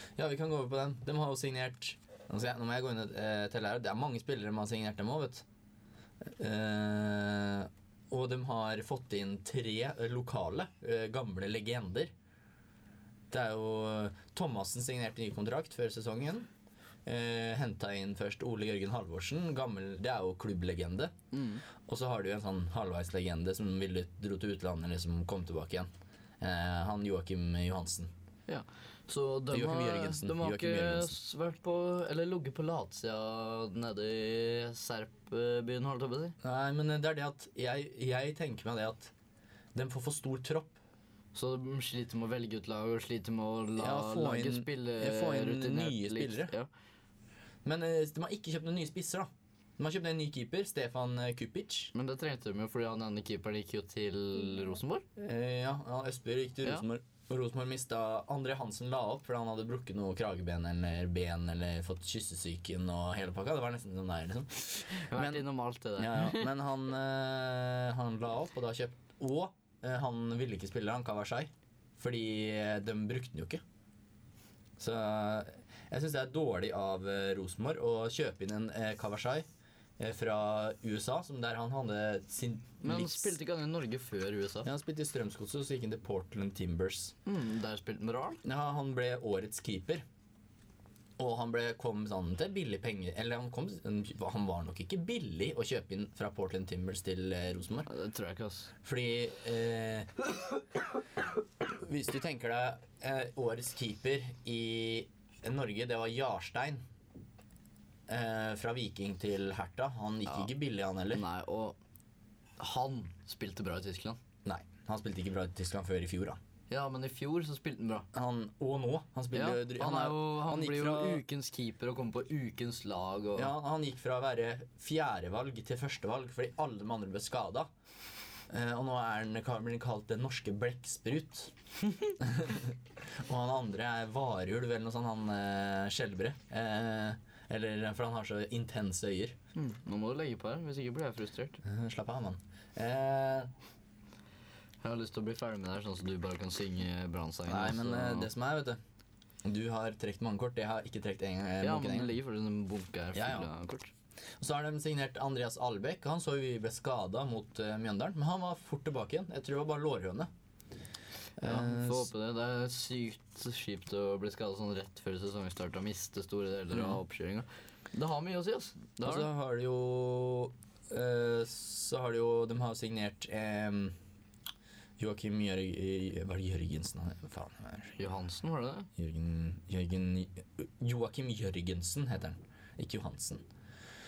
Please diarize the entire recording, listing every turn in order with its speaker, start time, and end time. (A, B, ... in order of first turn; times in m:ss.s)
0:00.2-0:05.4 A
0:06.2-0:12.1 A
0:13.3-0:16.5 A
0:17.1-0:21.1 A
0:21.3-0:21.6 B
0:21.8-0:25.9 A
0:26.4-0:28.1 A
0:28.5-0:36.4 B
0:29.5-0:31.1 A
0:36.4-0:39.1 A
0:39.7-0:40.8 A
0:41.3-0:46.7 B
0:43.8-0:46.5 A
0:47.6-0:51.9 A
0:51.9-0:55.0 B
0:55.2-1:05.4 A
1:04.9-1:06.5 B
1:06.0-1:13.6 A
1:14.8-1:19.4 A
1:20.0-1:23.3 A
1:22.8-1:24.7 B
1:24.6-1:27.1 A
1:27.2-1:28.4 B
1:28.4-1:30.0 A
1:31.2-1:37.9 A
1:37.9-1:38.7 B
1:38.8-1:40.3 A
1:41.6-1:46.8 A
1:48.1-1:51.2 A
1:51.1-1:51.8 B
1:52.6-1:54.2 B
1:54.4-1:56.4 A
1:56.7-1:58.1 B
1:58.1-2:01.2 A
1:59.3-2:03.5 B
2:03.4-2:07.7 A
2:08.5-2:11.5 A
2:12.1-2:19.4 A
2:19.6-2:21.6 B
2:21.6-2:23.5 A
2:24.8-2:28.3 B
2:27.5-2:28.8 A
2:29.4-2:32.1 A
2:31.6-2:33.9 B
2:33.1-2:33.5 A
2:34.4-2:40.3 A
2:41.4-2:42.1 A
2:41.4-2:49.3 B
2:46.7-2:47.0 A
2:49.0-2:53.9 A
2:55.0-2:58.0 A
2:58.0-2:58.9 B
2:59.0-3:03.4 A